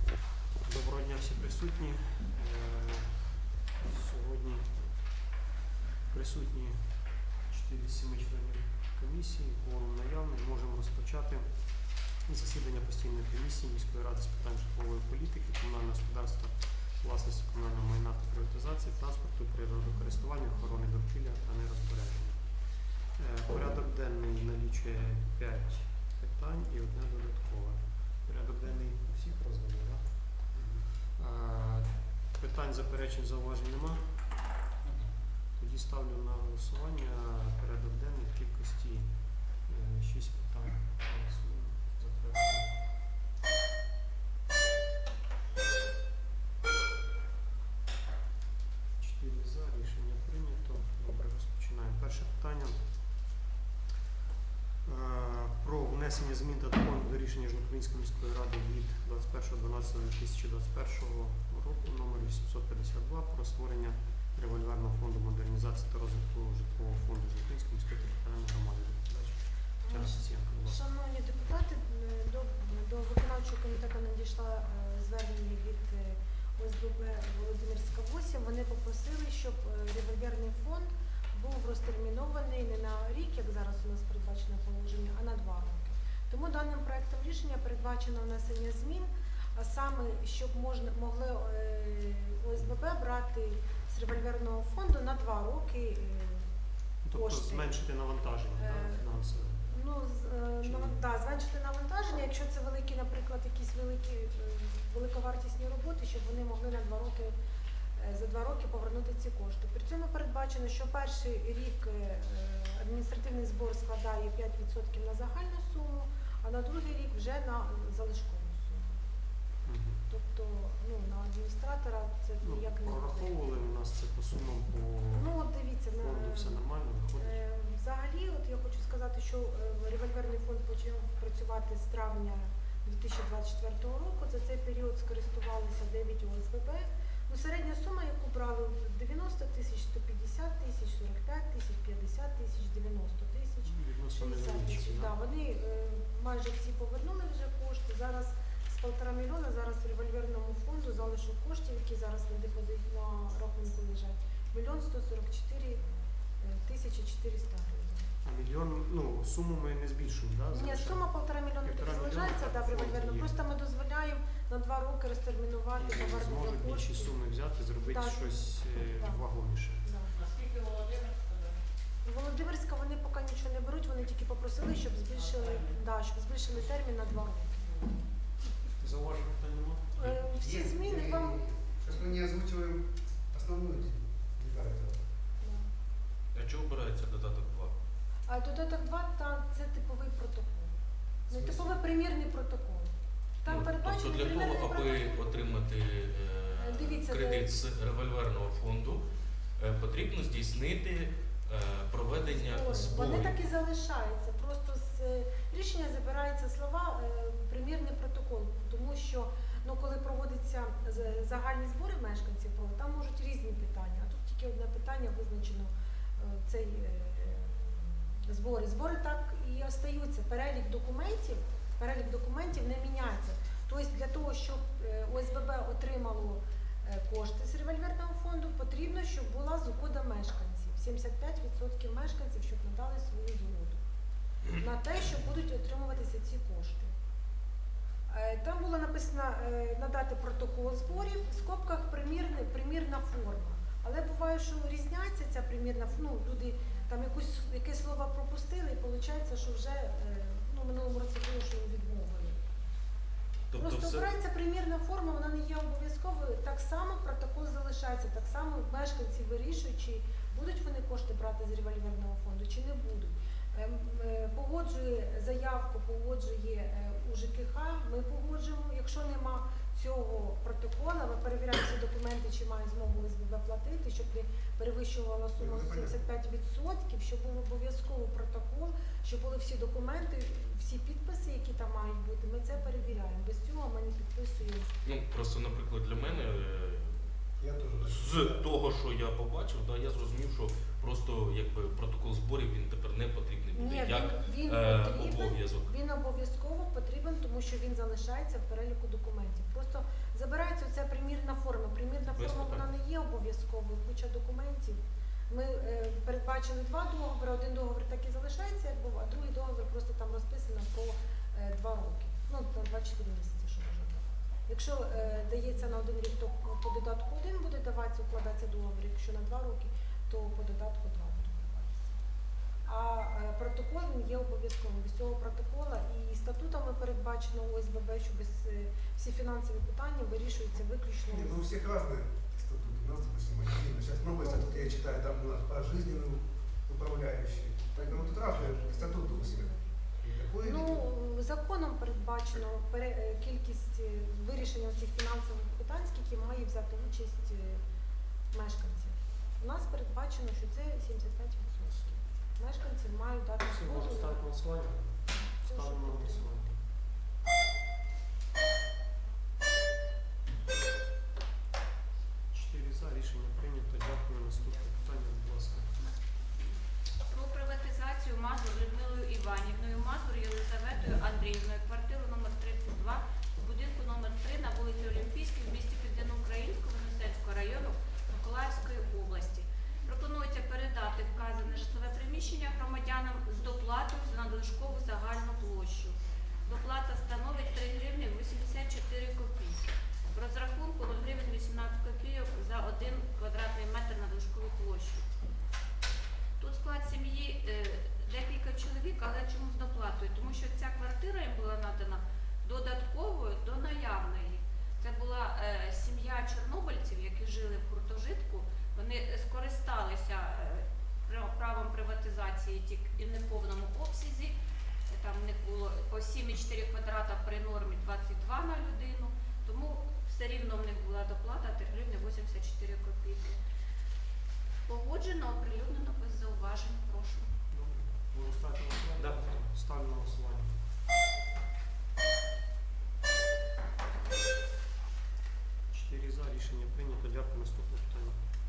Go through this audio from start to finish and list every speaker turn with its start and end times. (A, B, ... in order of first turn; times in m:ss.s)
0:00.6-0:05.3 A
0:06.1-0:11.5 A
0:12.2-0:34.1 A
0:35.6-0:39.1 A
0:39.6-0:42.7 A
0:49.0-0:52.8 A
0:54.8-1:10.8 A
1:09.8-1:36.5 B
1:37.0-1:39.6 A
1:37.1-1:37.8 B
1:38.6-1:39.0 B
1:39.6-1:47.3 B
1:40.6-1:41.0 A
1:48.0-1:59.0 B
1:59.6-2:00.0 A
2:00.1-2:03.6 B
2:02.4-2:05.3 A
2:05.1-2:38.1 B
2:06.0-2:07.4 A
2:23.6-2:25.1 A
2:38.2-2:41.1 A
2:40.5-2:47.2 B
2:41.6-2:43.3 A
2:45.8-2:49.8 A
2:47.8-2:49.2 B
2:49.8-2:50.1 B
2:52.0-2:57.8 B
2:58.8-3:00.2 A
3:00.0-3:01.4 B
3:00.3-3:05.0 C
3:05.4-3:05.7 B
3:06.3-3:07.7 D
3:08.3-3:10.7 B
3:11.3-3:15.4 B
3:11.3-3:11.7 C
3:13.4-3:19.0 D
3:16.5-3:17.6 B
3:19.6-3:23.4 D
3:22.2-3:53.8 B
3:54.5-3:56.9 B
3:58.1-4:12.4 B
4:13.5-4:14.1 D
4:13.5-4:44.7 B
4:35.4-4:36.0 C
4:44.8-4:47.1 D
4:47.4-4:48.4 C
4:47.8-4:55.7 D
4:53.5-5:21.9 B
5:02.1-5:02.6 D
5:22.6-5:31.4 B
5:31.1-5:40.8 C
5:34.1-5:34.9 B
5:37.7-5:39.8 B
5:40.4-5:47.6 B
5:48.3-5:54.2 B
5:53.4-5:56.6 A
5:55.4-5:56.3 B
6:02.3-6:05.7 A
6:07.1-6:35.0 E
6:36.4-6:54.4 E
6:54.9-7:03.4 E
7:04.7-7:07.3 E
7:07.5-7:10.5 A
7:09.0-7:09.2 D
7:15.7-7:18.2 A